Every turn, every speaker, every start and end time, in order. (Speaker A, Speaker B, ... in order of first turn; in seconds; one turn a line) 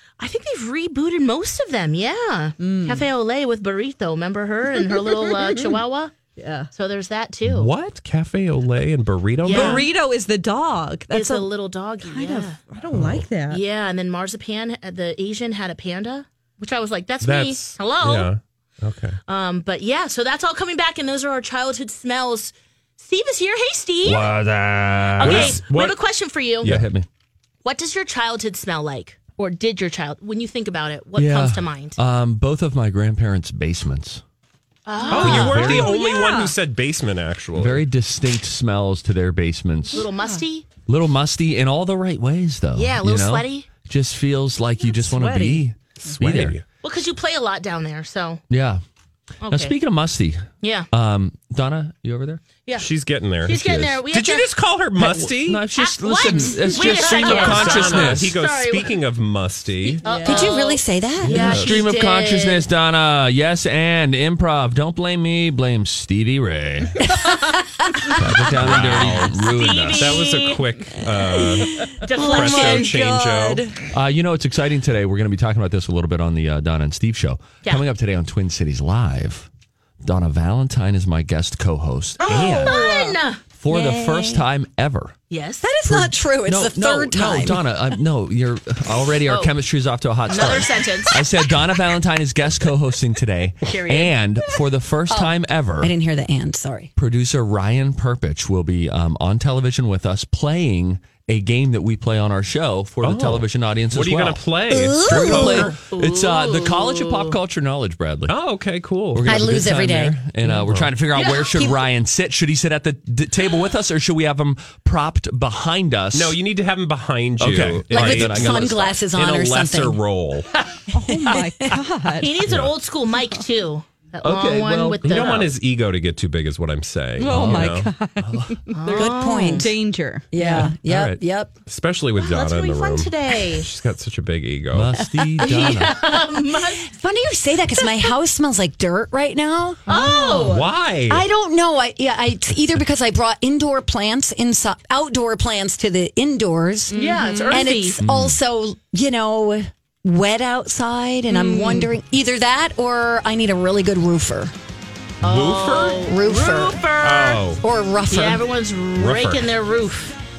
Speaker A: 0.2-6.1
Speaker B: 2.6-3.1
Speaker B: 6.4-6.7
Speaker A: 6.7-7.7
Speaker C: 7.5-9.8
Speaker A: 9.4-9.9
Speaker B: 9.5-11.5
Speaker A: 11.1-12.6
Speaker B: 12.0-13.6
Speaker C: 12.9-13.2
Speaker A: 13.5-18.3
Speaker C: 17.2-19.2
Speaker A: 19.3-24.3
Speaker D: 24.0-25.6
Speaker A: 25.2-26.7
Speaker C: 25.2-26.0
Speaker C: 26.6-26.9
Speaker D: 26.6-27.1
Speaker A: 27.6-32.0
Speaker D: 31.2-34.2
Speaker A: 34.9-35.9
Speaker B: 35.0-36.5
Speaker C: 35.1-37.9
Speaker D: 35.1-35.9
Speaker D: 37.5-40.0
Speaker A: 39.9-40.7
Speaker B: 40.0-40.4
Speaker D: 40.8-46.6
Speaker A: 42.8-43.7
Speaker B: 44.8-46.3
Speaker C: 46.0-46.6
Speaker A: 46.8-48.4
Speaker D: 48.5-48.8
Speaker A: 49.4-49.8
Speaker D: 49.5-52.4
Speaker A: 50.6-50.9
Speaker C: 52.8-55.6
Speaker A: 53.4-54.5
Speaker D: 53.6-53.9
Speaker D: 55.0-58.4
Speaker A: 55.7-59.0
Speaker C: 56.8-60.0
Speaker A: 60.0-62.7
Speaker B: 60.0-60.6
Speaker E: 60.2-61.6
Speaker D: 61.2-67.0
Speaker D: 68.1-70.2
Speaker C: 68.6-69.2
Speaker A: 68.8-70.7
Speaker C: 69.9-73.6
Speaker B: 71.4-73.7
Speaker A: 72.0-73.0
Speaker D: 73.9-79.5
Speaker D: 80.0-82.8
Speaker A: 82.3-83.4
Speaker E: 82.4-82.7
Speaker B: 82.6-83.2
Speaker D: 83.5-85.2
Speaker E: 83.7-84.5
Speaker A: 85.3-85.7
Speaker E: 85.6-88.0
Speaker D: 85.8-95.9
Speaker A: 89.3-89.5
Speaker A: 90.3-91.2
Speaker A: 93.6-94.2
Speaker E: 95.1-96.9
Speaker D: 97.0-108.3
Speaker C: 103.0-105.7
Speaker E: 104.7-105.7
Speaker A: 105.9-107.4
Speaker C: 108.3-109.3
Speaker D: 109.1-116.4
Speaker E: 109.2-111.9
Speaker C: 110.6-110.9
Speaker C: 116.1-120.5
Speaker D: 117.4-119.0
Speaker E: 117.9-120.0
Speaker B: 120.9-122.3
Speaker E: 121.1-121.5
Speaker A: 122.2-125.5
Speaker C: 122.5-122.7
Speaker D: 124.2-125.5
Speaker C: 125.0-127.9
Speaker B: 127.2-130.8
Speaker D: 127.2-128.7
Speaker A: 128.7-129.7
Speaker E: 129.0-129.6
Speaker E: 130.3-131.5
Speaker C: 130.7-135.0
Speaker A: 132.2-133.7
Speaker D: 134.7-136.1
Speaker A: 135.4-136.9
Speaker E: 136.8-140.4
Speaker A: 139.9-140.7
Speaker C: 140.1-141.3
Speaker E: 141.1-154.5
Speaker B: 146.9-147.6
Speaker A: 146.9-148.0
Speaker C: 148.0-148.3
Speaker A: 151.3-151.9
Speaker C: 155.2-156.0
Speaker A: 155.2-157.4
Speaker E: 156.0-156.8
Speaker C: 157.0-157.6
Speaker E: 157.6-158.4
Speaker A: 158.1-160.1
Speaker C: 159.0-159.5